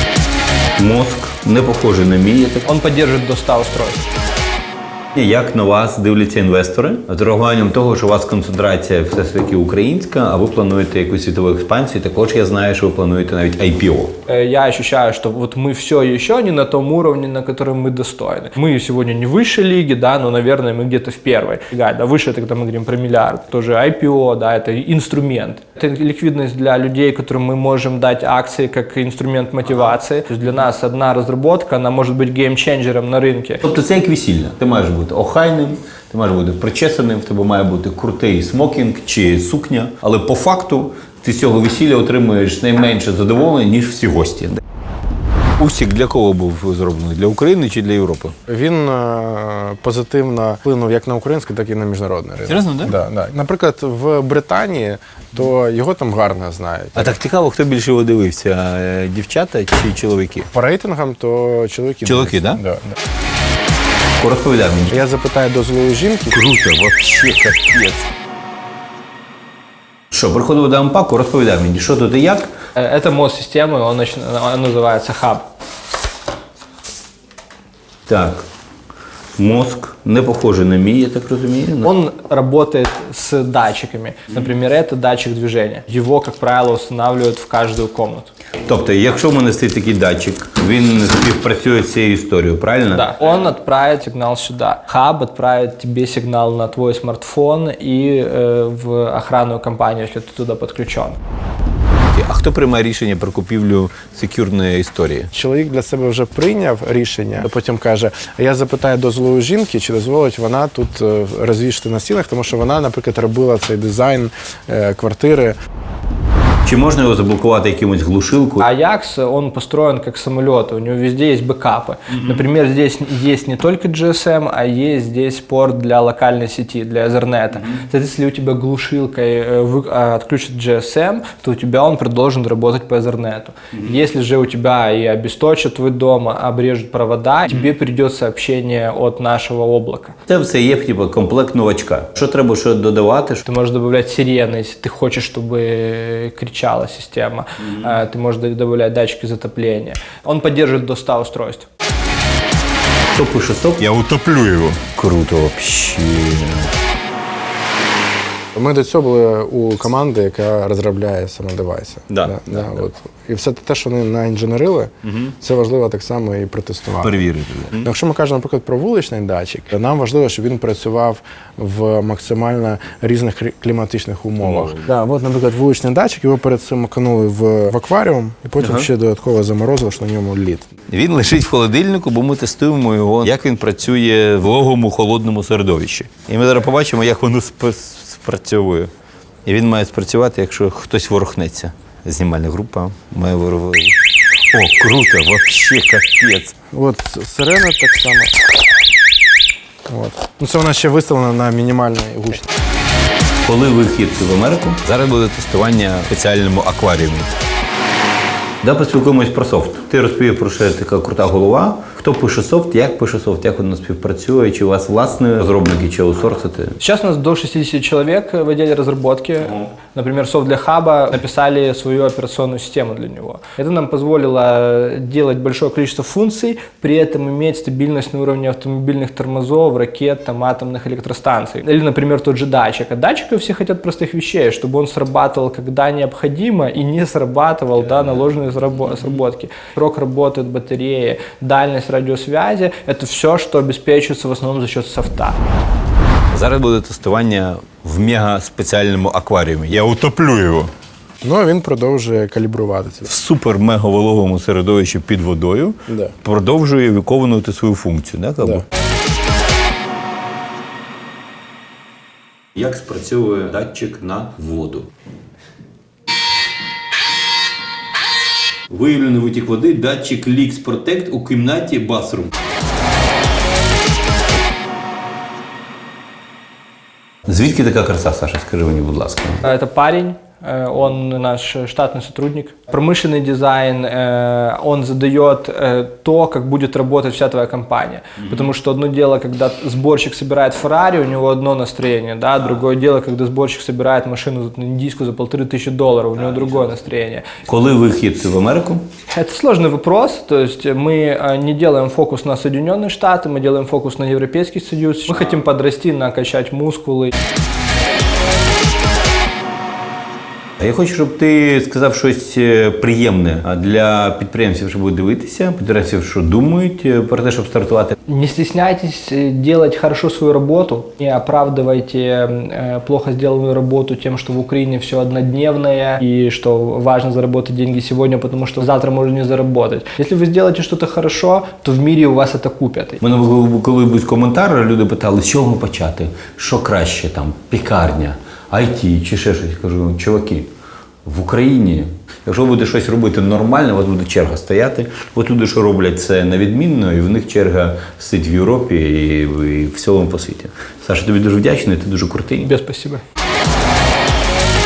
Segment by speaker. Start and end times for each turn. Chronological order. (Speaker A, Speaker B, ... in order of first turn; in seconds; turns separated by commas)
Speaker A: 0.8-2.7, Speaker B: 2.7-4.0, Speaker A: 5.1-14.2, Speaker B: 14.3-33.6, Speaker A: 33.6-44.6, Speaker A: 45.6-48.4, Speaker C: 48.5-57.1, Speaker A: 52.5-53.0, Speaker A: 57.0-60.5, Speaker C: 60.5-63.0, Speaker A: 62.0-62.6, Speaker A: 64.2-65.0, Speaker C: 64.9-66.4, Speaker A: 66.3-68.1, Speaker A: 70.1-72.5, Speaker B: 72.8-75.5, Speaker A: 78.1-78.5, Speaker A: 79.4-81.9, Speaker B: 81.8-88.3, Speaker A: 88.6-93.2, Speaker B: 92.9-101.2, Speaker A: 102.1-105.3, Speaker C: 105.3-115.6, Speaker A: 116.7-118.7, Speaker B: 118.6-140.2, Speaker A: 122.1-122.4, Speaker A: 140.3-143.4, Speaker B: 143.4-151.7, Speaker A: 147.6-148.0, Speaker A: 153.2-156.7, Speaker C: 158.6-180.7, Speaker A: 162.1-162.7, Speaker A: 165.0-165.3, Speaker A: 167.0-167.9, Speaker A: 174.4-174.9, Speaker A: 178.6-178.9, Speaker A: 180.9-188.9, Speaker A: 189.5-194.0, Speaker A: 194.5-196.6, Speaker C: 196.7-198.4, Speaker C: 199.9-202.5, Speaker A: 203.4-207.3, Speaker A: 208.6-216.8, Speaker B: 216.8-245.4, Speaker A: 246.3-250.7, Speaker C: 251.2-253.1, Speaker A: 253.1-258.7, Speaker C: 255.9-256.1, Speaker A: 262.6-264.9, Speaker A: 268.7-272.3, Speaker A: 277.3-279.5, Speaker B: 279.4-297.4, Speaker A: 288.2-288.5, Speaker A: 297.4-298.9, Speaker B: 299.1-307.1, Speaker A: 310.6-318.0, Speaker B: 318.1-333.0, Speaker A: 333.0-340.5, Speaker A: 341.1-352.6, Speaker B: 352.5-353.0